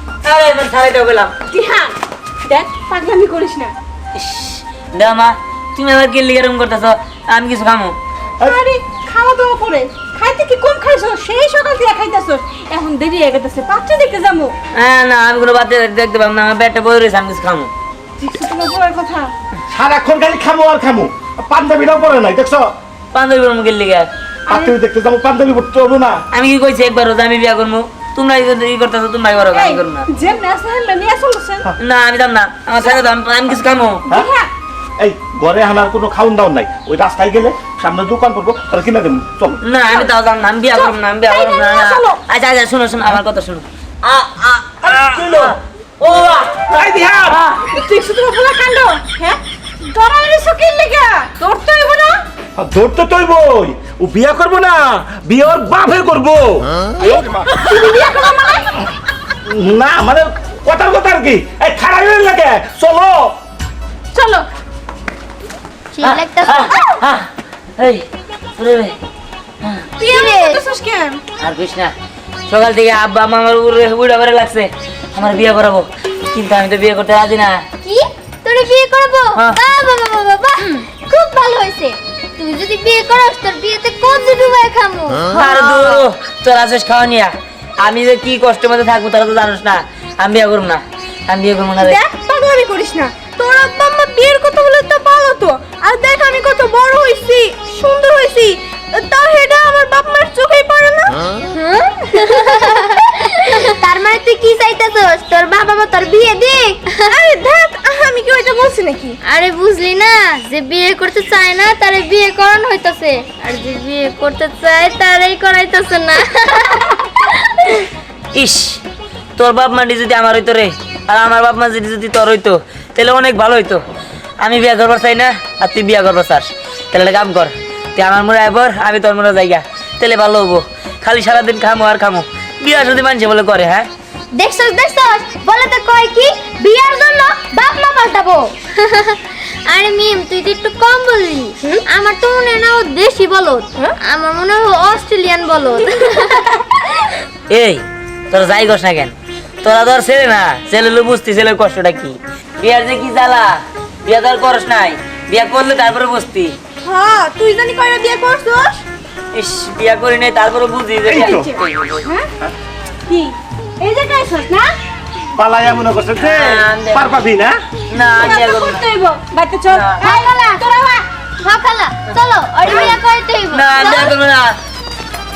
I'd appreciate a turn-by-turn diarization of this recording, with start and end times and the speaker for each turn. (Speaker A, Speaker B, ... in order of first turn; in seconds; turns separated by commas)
Speaker A: 0.2-1.3, Speaker B: 1.5-1.9, Speaker B: 2.4-3.7, Speaker A: 4.1-8.0, Speaker B: 8.4-14.5, Speaker A: 14.8-17.7, Speaker B: 18.2-19.3, Speaker C: 19.7-22.7, Speaker A: 23.1-24.1, Speaker C: 24.5-26.2, Speaker B: 24.5-24.7, Speaker A: 26.3-30.1, Speaker B: 29.5-31.7, Speaker A: 31.8-34.0, Speaker B: 34.1-34.5, Speaker C: 35.0-39.6, Speaker A: 39.6-46.7, Speaker B: 40.7-42.2, Speaker C: 44.8-45.5, Speaker C: 46.7-47.4, Speaker B: 47.0-52.1, Speaker C: 52.6-56.7, Speaker B: 57.0-58.9, Speaker C: 59.5-63.4, Speaker B: 64.1-64.5, Speaker D: 65.9-66.7, Speaker A: 66.0-67.3, Speaker A: 67.8-68.0, Speaker A: 68.6-68.9, Speaker B: 70.0-71.2, Speaker D: 70.0-70.6, Speaker A: 71.4-71.9, Speaker A: 72.5-77.6, Speaker D: 77.8-85.4, Speaker A: 85.3-92.0, Speaker B: 85.5-86.0, Speaker B: 91.8-101.3, Speaker D: 101.5-107.1, Speaker B: 102.3-102.8, Speaker B: 107.1-109.2, Speaker D: 109.2-117.9, Speaker A: 118.3-118.8, Speaker A: 119.4-123.8, Speaker A: 124.4-133.9, Speaker D: 134.3-147.2, Speaker A: 147.5-156.5, Speaker B: 156.8-158.8, Speaker A: 159.3-162.0, Speaker C: 161.1-161.5, Speaker B: 161.1-162.3, Speaker B: 163.1-164.7, Speaker C: 165.3-167.6, Speaker A: 166.2-167.1, Speaker A: 167.9-168.9, Speaker B: 168.2-171.0, Speaker A: 169.7-170.0, Speaker D: 170.0-170.7, Speaker D: 171.4-174.1, Speaker A: 173.5-174.6